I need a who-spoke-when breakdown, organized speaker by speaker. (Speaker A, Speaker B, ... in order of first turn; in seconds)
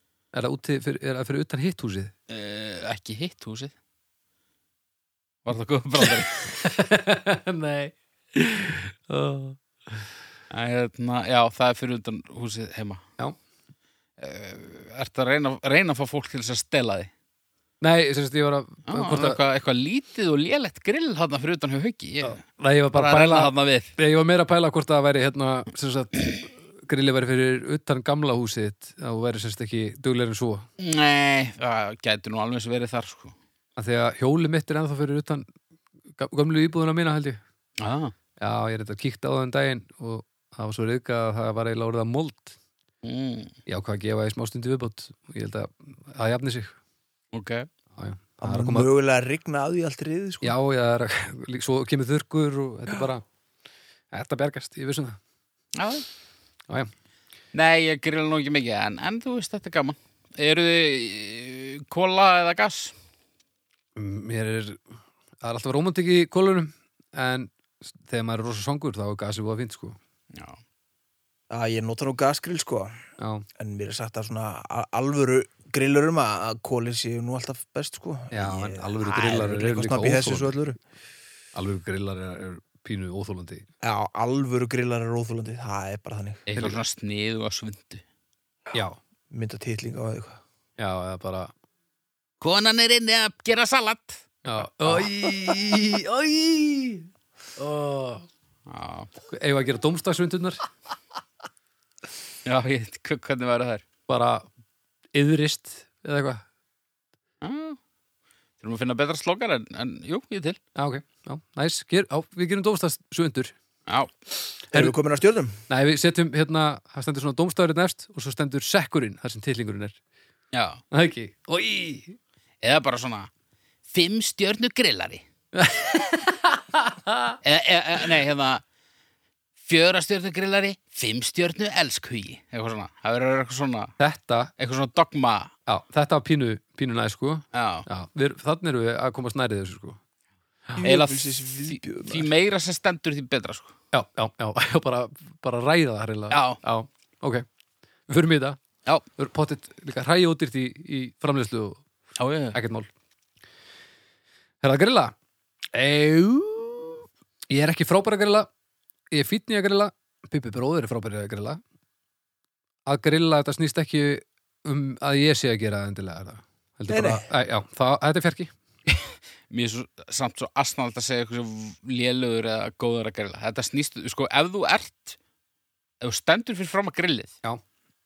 Speaker A: 0.3-2.1, 6.0-9.9, 17.8-19.4, 22.2-30.6, 33.8-35.5, 36.1-37.4, 38.4-42.5, 43.7-46.7, 47.9-48.9, 50.4-53.2, 54.1-55.2, 64.0-64.8, 65.4-70.0, 73.2-73.4, 78.3-80.5, 81.5-83.7, 86.5-86.8, 88.7-89.0, 90.8-91.5, 94.4-98.2, 99.3-100.6, 104.1-104.5, 105.1-106.4, 110.7-113.5, 115.7-120.0, 120.9-122.2, 125.5-127.4, 134.0-134.5, 135.7-140.0, 143.9-147.4, 148.1-148.6, 149.2-151.8, 152.5-152.9, 154.6-155.1, 155.7-158.5, 159.1-161.6, 162.8-168.5
Speaker B: 2.3-3.7, 5.4-6.4, 10.5-13.0, 14.2-17.1, 18.9-22.4, 22.9-23.9, 30.8-33.3, 37.8-38.1, 43.0-43.5, 47.3-47.7, 55.7-56.0, 57.5-62.9, 70.3-70.6, 86.5-88.0, 92.4-94.2, 98.7-99.1, 102.4-103.8, 107.4-107.8, 108.6-110.6, 120.5-120.8, 122.6-123.3, 123.9-125.2, 127.4-128.6, 129.6-133.9, 134.6-135.5, 137.5-137.9, 140.8-143.7, 146.3-146.6, 152.2-152.6, 168.9-175.2, 176.0-177.3
Speaker C: 48.4-50.5, 71.5-73.0, 73.6-80.8, 83.8-86.4, 89.3-90.4, 114.7-115.6, 140.8-142.3, 166.9-167.2